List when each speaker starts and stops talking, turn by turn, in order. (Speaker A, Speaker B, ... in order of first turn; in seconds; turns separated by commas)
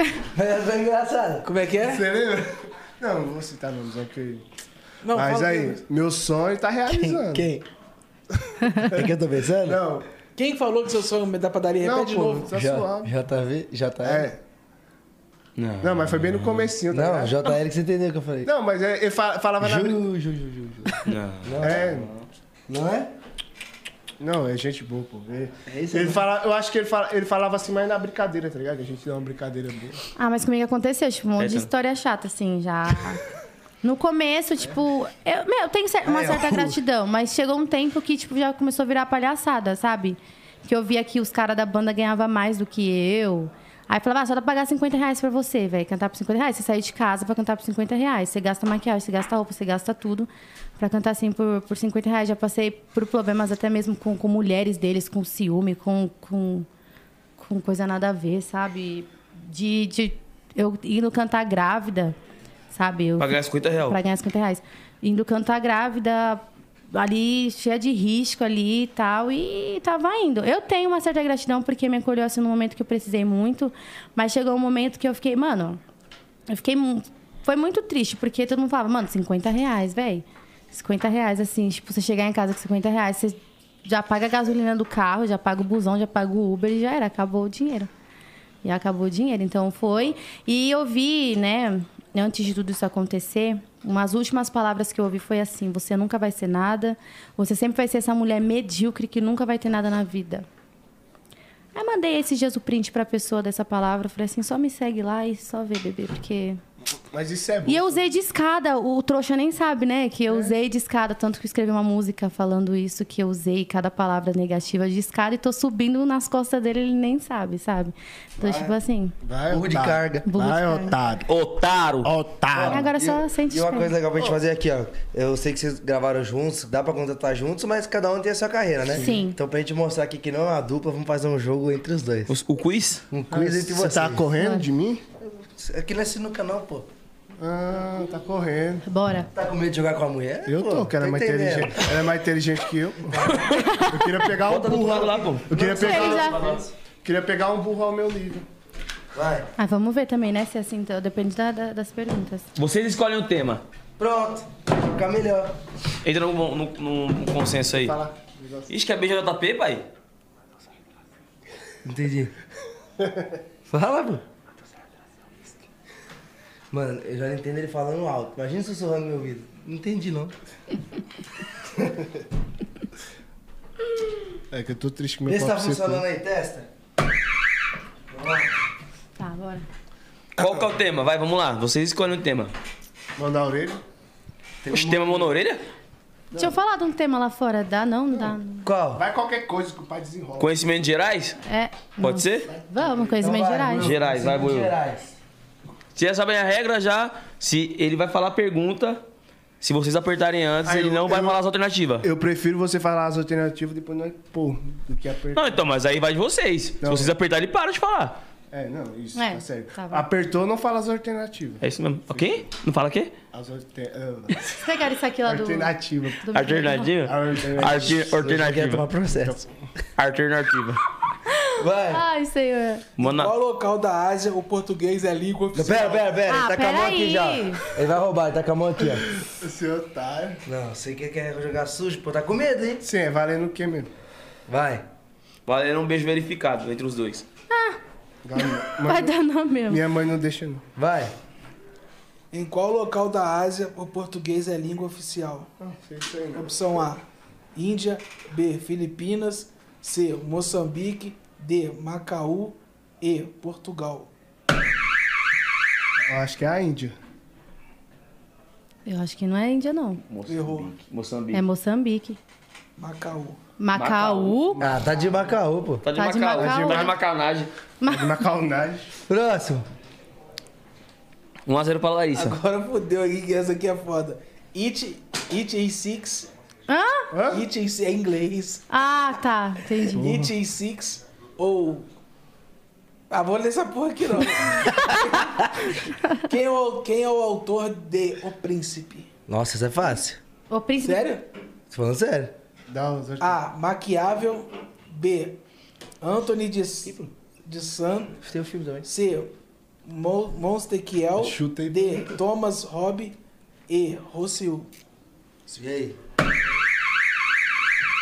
Speaker A: 0.3-1.5, Speaker B: 1.4-2.0, Speaker C: 1.8-4.5, Speaker B: 5.0-5.8, Speaker C: 5.1-7.5, Speaker A: 6.9-7.7, Speaker C: 8.4-10.1, Speaker A: 8.9-9.8, Speaker B: 10.4-12.5, Speaker C: 11.8-13.1, Speaker A: 12.5-14.3, Speaker C: 14.0-14.4, Speaker D: 15.6-16.7, Speaker C: 15.8-17.5, Speaker A: 16.9-18.5, Speaker C: 18.4-20.0, Speaker A: 19.6-22.1, Speaker D: 21.1-21.9, Speaker C: 21.6-22.1, Speaker A: 22.7-23.1, Speaker C: 24.2-30.0, Speaker A: 25.6-26.2, Speaker E: 30.1-33.2, Speaker D: 31.4-31.7, Speaker E: 33.8-56.7, Speaker A: 36.0-36.8, Speaker E: 57.4-62.1, Speaker E: 62.7-75.8, Speaker D: 63.2-64.0, Speaker E: 76.5-87.9, Speaker E: 88.6-100.5, Speaker E: 101.7-106.6, Speaker C: 107.1-108.0, Speaker E: 107.7-119.2, Speaker C: 110.3-110.5, Speaker A: 118.4-118.7, Speaker C: 119.2-121.3, Speaker A: 119.5-120.3, Speaker E: 120.3-121.0, Speaker D: 121.3-122.1, Speaker C: 122.0-122.9, Speaker A: 122.5-132.3, Speaker E: 122.7-123.9, Speaker C: 128.9-129.2, Speaker E: 128.9-129.4, Speaker D: 132.3-133.0, Speaker A: 133.1-134.3, Speaker C: 133.3-135.0, Speaker E: 134.4-134.7, Speaker A: 135.2-136.9, Speaker C: 137.4-138.8, Speaker E: 138.9-139.3, Speaker A: 139.3-142.1, Speaker C: 140.4-143.3, Speaker A: 143.1-143.6, Speaker D: 143.3-143.7, Speaker E: 143.5-144.1, Speaker C: 143.9-146.4, Speaker D: 144.3-146.6, Speaker A: 145.5-146.7, Speaker E: 145.8-146.4, Speaker C: 147.0-148.5, Speaker A: 149.1-149.5, Speaker E: 149.6-152.4, Speaker D: 152.6-153.6, Speaker A: 154.0-155.6, Speaker D: 156.0-158.0, Speaker C: 157.8-158.7, Speaker D: 158.7-159.8, Speaker A: 161.8-162.3, Speaker C: 163.0-163.4, Speaker A: 163.7-164.2, Speaker A: 166.7-170.3, Speaker C: 174.5-176.1, Speaker A: 175.2-176.7, Speaker A: 178.1-178.5, Speaker E: 179.2-179.7, Speaker D: 180.4-182.5, Speaker A: 180.4-180.7, Speaker C: 183.2-183.8, Speaker A: 184.6-185.3, Speaker D: 184.7-185.6, Speaker E: 186.4-188.7, Speaker A: 188.6-189.0, Speaker C: 188.9-190.7, Speaker D: 190.4-191.4, Speaker E: 191.4-193.9, Speaker D: 192.0-192.5, Speaker C: 192.5-193.4, Speaker A: 193.2-195.2, Speaker D: 193.7-194.7, Speaker D: 195.9-199.0, Speaker D: 199.6-202.1, Speaker C: 200.6-201.4, Speaker C: 202.0-205.7, Speaker D: 205.3-208.2, Speaker C: 206.8-207.1, Speaker C: 208.5-212.4, Speaker E: 209.2-210.1, Speaker D: 211.6-213.2, Speaker C: 213.3-214.5, Speaker E: 214.6-216.9, Speaker C: 215.2-216.3, Speaker D: 216.3-218.8, Speaker C: 217.0-218.4, Speaker A: 218.2-219.4, Speaker C: 219.1-219.5, Speaker D: 220.0-220.8, Speaker E: 221.3-222.9, Speaker A: 221.6-222.1, Speaker D: 223.0-223.3, Speaker B: 223.0-226.1, Speaker A: 225.5-229.1, Speaker E: 226.3-227.7, Speaker C: 229.1-230.4, Speaker A: 230.4-232.8, Speaker C: 232.8-233.9, Speaker A: 234.5-234.9, Speaker D: 235.4-237.3, Speaker E: 237.5-237.8, Speaker C: 238.2-239.2, Speaker E: 238.4-239.8, Speaker C: 239.7-240.7, Speaker A: 240.8-241.1, Speaker B: 242.3-245.5, Speaker C: 245.6-246.9, Speaker B: 246.3-247.0, Speaker B: 247.6-254.1, Speaker C: 256.1-256.9, Speaker E: 258.9-260.0, Speaker D: 260.0-261.4, Speaker B: 260.3-260.7, Speaker E: 261.3-262.2, Speaker B: 262.8-263.4, Speaker E: 263.6-264.6, Speaker D: 263.7-264.6, Speaker A: 264.6-265.8, Speaker D: 265.8-267.5, Speaker E: 265.9-266.9, Speaker C: 266.4-266.9, Speaker E: 267.8-268.1, Speaker C: 267.9-268.9, Speaker A: 269.1-269.6, Speaker D: 271.4-272.4, Speaker B: 272.1-276.3, Speaker E: 276.7-277.1, Speaker C: 277.1-277.5, Speaker B: 277.3-278.6, Speaker E: 278.7-280.1, Speaker B: 279.9-281.9, Speaker C: 279.9-280.3, Speaker B: 283.1-285.7, Speaker B: 286.3-289.1, Speaker A: 289.3-290.2, Speaker E: 290.5-291.1, Speaker B: 290.8-291.2, Speaker A: 291.7-292.3, Speaker C: 292.7-293.4, Speaker B: 293.2-295.4, Speaker B: 296.0-298.2, Speaker A: 298.2-298.9, Speaker B: 298.8-299.3, Speaker B: 299.9-304.7, Speaker C: 301.2-302.2, Speaker A: 305.5-306.0